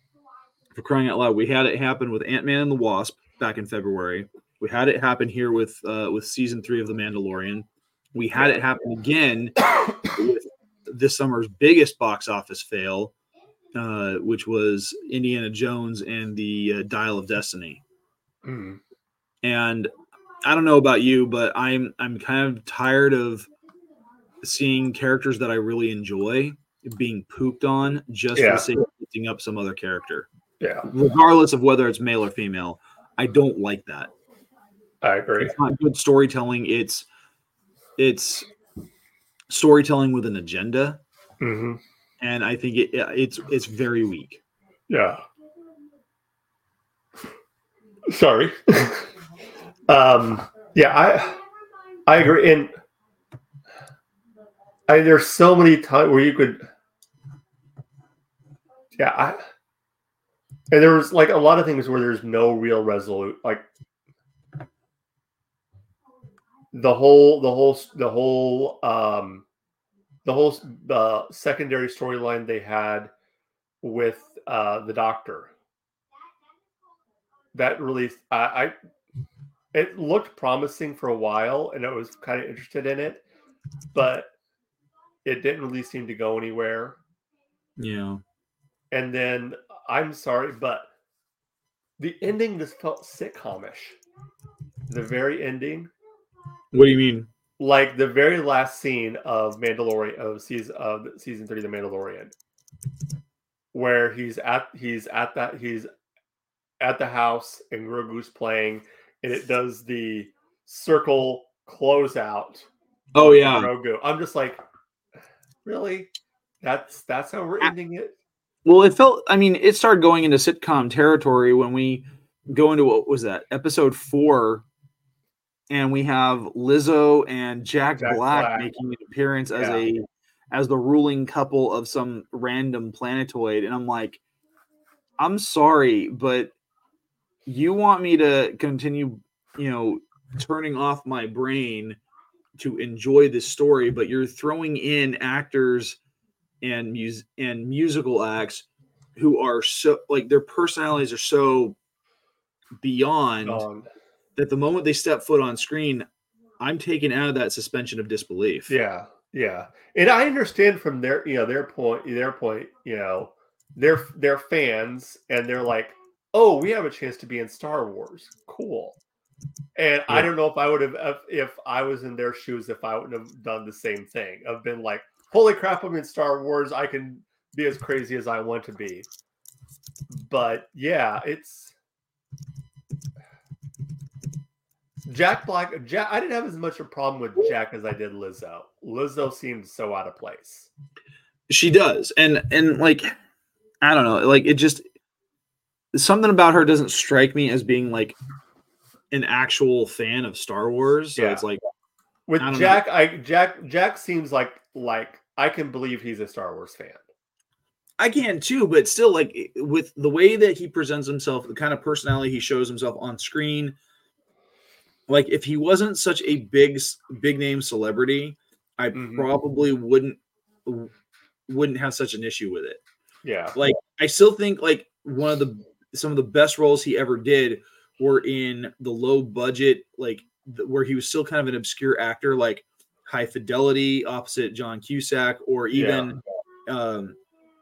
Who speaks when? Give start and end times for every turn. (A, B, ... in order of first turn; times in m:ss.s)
0:00.8-0:13.1 A
0:08.4-0:08.6 B
0:13.8-0:17.8 A
0:18.4-0:18.8 B
0:19.4-0:19.9 A
0:20.4-0:23.5 A
0:24.4-0:30.3 A
0:28.4-0:28.7 B
0:30.6-0:30.9 B
0:30.9-0:34.1 A
0:35.0-0:35.6 B
0:35.4-0:37.1 A
0:38.0-0:38.5 A
0:39.5-0:41.0 A
0:41.4-0:41.8 B
0:42.2-0:44.4 A
0:44.9-0:45.2 B
0:48.1-0:49.1 B
0:49.9-0:51.4 B
0:52.1-0:52.7 B
0:54.9-0:56.6 B
0:59.0-0:59.4 B
1:00.7-1:03.7 B
1:06.7-1:09.5 B
1:10.2-1:13.1 B
1:13.8-1:15.5 B
1:17.5-1:18.7 B
1:19.7-1:23.2 B
1:23.9-1:24.3 B
1:25.2-1:27.0 B
1:27.8-1:28.2 A
1:28.9-1:30.9 B
1:32.0-1:34.0 B
1:34.9-1:35.9 B
1:36.7-1:37.3 A
1:37.6-1:42.3 B
1:43.7-1:45.9 B
1:46.8-1:54.6 B
1:53.2-1:53.7 A
1:55.6-1:58.2 B
1:58.6-2:04.7 A
2:05.7-2:14.2 A
2:08.0-2:08.7 B
2:09.6-2:09.8 B
2:15.2-2:16.6 A
2:17.5-2:22.0 A
2:22.6-2:26.0 A
2:26.6-2:31.8 A
2:32.8-2:33.6 A
2:33.4-2:33.9 B
2:34.4-2:36.1 A
2:36.6-2:38.7 A
2:38.7-2:49.0 B
2:49.8-2:59.1 B
3:00.1-3:01.8 B
3:05.1-3:10.7 B
3:11.5-3:13.2 A
3:13.8-3:14.8 A
3:15.9-3:18.2 A
3:19.1-3:21.6 A
3:21.2-3:21.4 B
3:22.3-3:27.0 B
3:22.4-3:22.8 A
3:28.0-3:33.8 A
3:35.1-3:40.9 A
3:38.9-3:39.3 B
3:41.5-3:42.8 A
3:43.2-3:43.6 B
3:43.6-3:57.2 A
3:55.7-3:56.1 B